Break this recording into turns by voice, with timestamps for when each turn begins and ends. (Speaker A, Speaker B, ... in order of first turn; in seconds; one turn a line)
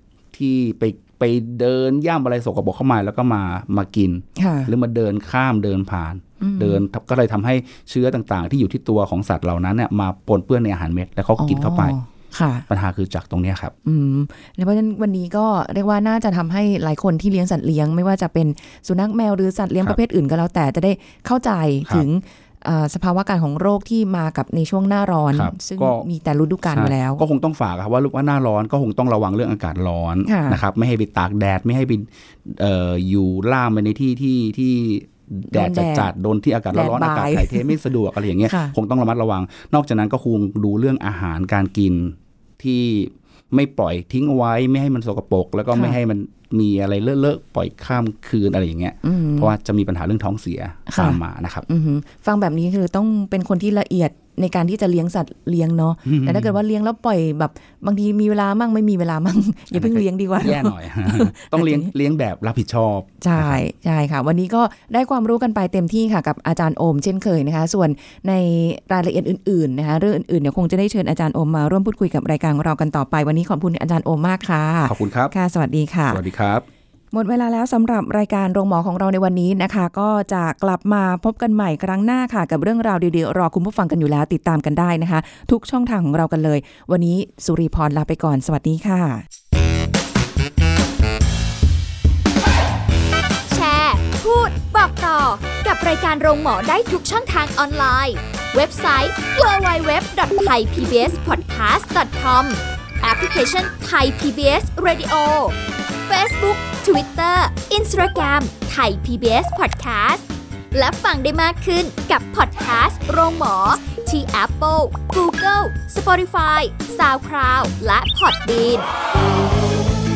Speaker A: 0.3-11.9
Speaker B: 4.4-4.7
Speaker B: 6.4-6.8
Speaker B: 11.4-12.6
Speaker A: 12.7-13.7
Speaker B: 13.8-27.2
Speaker A: 25.3-26.0
Speaker A: 26.7-51.6
Speaker B: 30.2-30.6
Speaker B: 35.5-36.1
Speaker B: 36.7-37.8
Speaker B: 38.4-38.7
Speaker B: 45.7-46.0
Speaker B: 49.0-49.5
Speaker B: 50.9-61.9
Speaker A: 56.0-56.5
Speaker A: 59.7-63.6
Speaker B: 63.2-76.2
Speaker A: 74.8-75.3
Speaker A: 76.1-76.6
Speaker B: 77.1-89.2
Speaker C: 93.5-105.6
Speaker C: 106.1-118.9